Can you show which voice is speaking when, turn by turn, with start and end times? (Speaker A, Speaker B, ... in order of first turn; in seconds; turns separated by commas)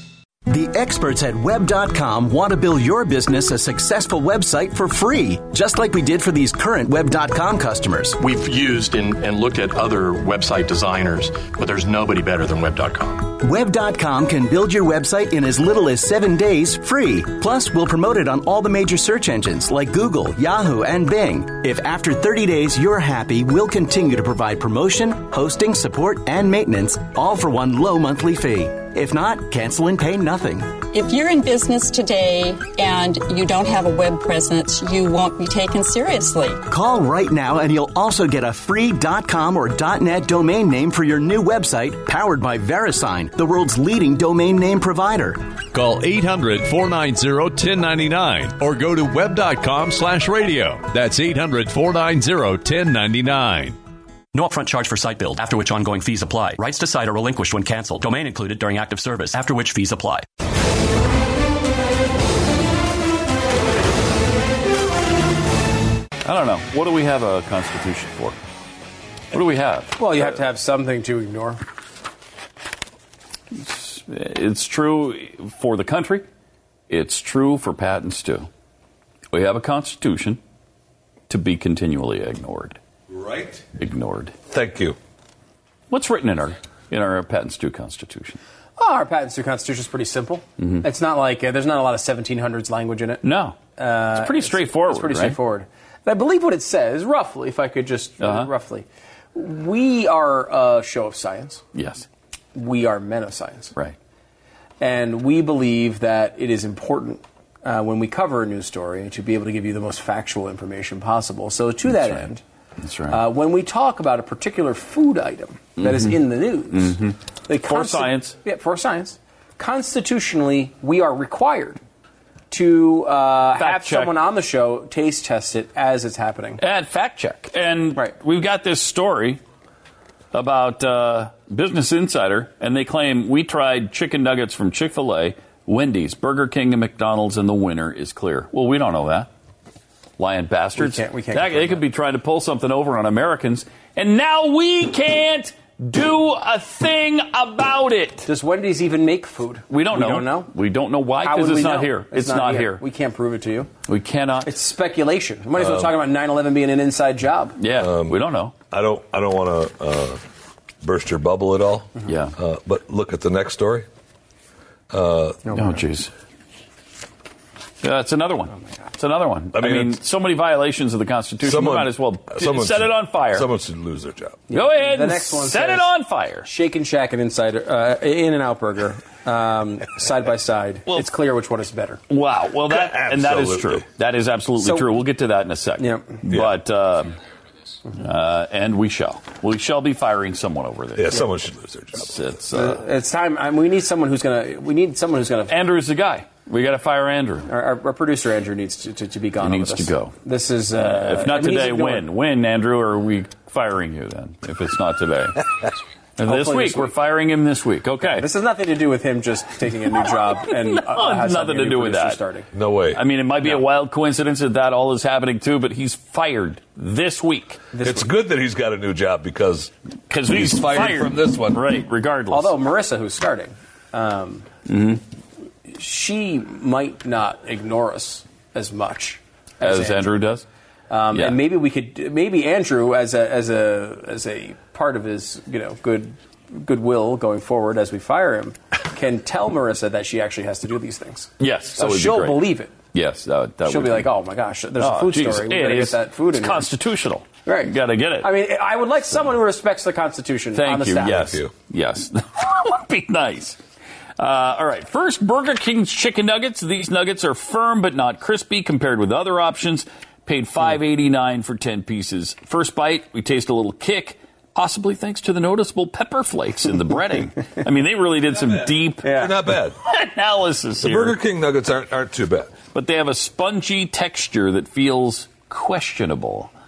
Speaker A: 0.5-8.2, Speaker B: 8.2-13.3, Speaker A: 13.4-30.8, Speaker C: 30.9-36.6, Speaker A: 36.7-45.4, Speaker D: 45.7-53.8, Speaker E: 54.3-60.2, Speaker F: 66.2-68.4, Speaker F: 69.3-70.1, Speaker G: 70.0-71.6, Speaker F: 73.5-76.2, Speaker F: 76.9-78.5, Speaker F: 79.3-80.4, Speaker F: 81.3-82.8, Speaker F: 83.4-84.3, Speaker H: 84.5-85.0, Speaker F: 85.9-88.4, Speaker G: 88.8-93.2, Speaker F: 93.2-95.4, Speaker G: 93.8-101.6, Speaker F: 98.2-98.5, Speaker F: 101.8-102.0, Speaker G: 102.5-103.8, Speaker G: 104.8-112.4, Speaker F: 111.9-112.2, Speaker F: 112.8-113.2, Speaker G: 113.1-121.8, Speaker F: 115.8-116.2, Speaker F: 116.7-117.2, Speaker F: 117.7-118.4, Speaker G: 122.5-126.6, Speaker F: 123.6-124.2, Speaker F: 126.6-129.4, Speaker F: 130.3-139.3, Speaker F: 140.2-148.3, Speaker G: 140.8-141.8, Speaker G: 148.2-150.5, Speaker F: 149.7-152.8, Speaker G: 151.2-153.7, Speaker F: 153.9-154.6, Speaker G: 154.4-157.6, Speaker H: 155.6-155.9, Speaker F: 157.6-158.5, Speaker H: 157.7-158.2, Speaker H: 158.7-160.2, Speaker H: 160.8-163.8, Speaker F: 162.1-162.3, Speaker H: 164.9-165.5, Speaker G: 165.5-165.8, Speaker F: 165.5-166.1, Speaker F: 167.8-173.5, Speaker H: 169.5-170.0, Speaker H: 171.4-174.4, Speaker G: 174.5-175.9, Speaker F: 174.5-176.5, Speaker G: 176.4-182.0, Speaker F: 182.1-187.2, Speaker H: 182.7-183.8, Speaker G: 184.6-184.9, Speaker G: 185.8-186.2, Speaker F: 187.9-191.1, Speaker H: 191.0-192.2, Speaker F: 192.0-192.8, Speaker G: 192.5-195.5, Speaker F: 195.5-197.5, Speaker G: 197.5-202.1, Speaker F: 199.4-200.1, Speaker F: 200.8-205.4, Speaker G: 206.2-206.9, Speaker F: 206.2-208.2, Speaker G: 208.1-212.5, Speaker F: 210.3-212.2, Speaker H: 212.5-213.0, Speaker F: 212.9-217.6, Speaker G: 217.7-218.1, Speaker H: 217.8-219.7, Speaker F: 220.1-222.5, Speaker H: 220.3-221.6, Speaker G: 222.3-224.5, Speaker F: 224.7-225.0, Speaker G: 225.7-230.1, Speaker F: 229.6-230.4, Speaker G: 230.9-242.8, Speaker F: 231.1-231.4, Speaker F: 241.4-244.1, Speaker G: 243.7-246.7, Speaker F: 244.8-248.3, Speaker G: 247.5-251.4, Speaker F: 250.5-253.6, Speaker H: 251.1-251.5, Speaker F: 254.2-269.2, Speaker G: 269.0-269.3, Speaker H: 269.1-269.8, Speaker F: 269.8-271.2, Speaker H: 270.8-272.5, Speaker F: 272.7-276.5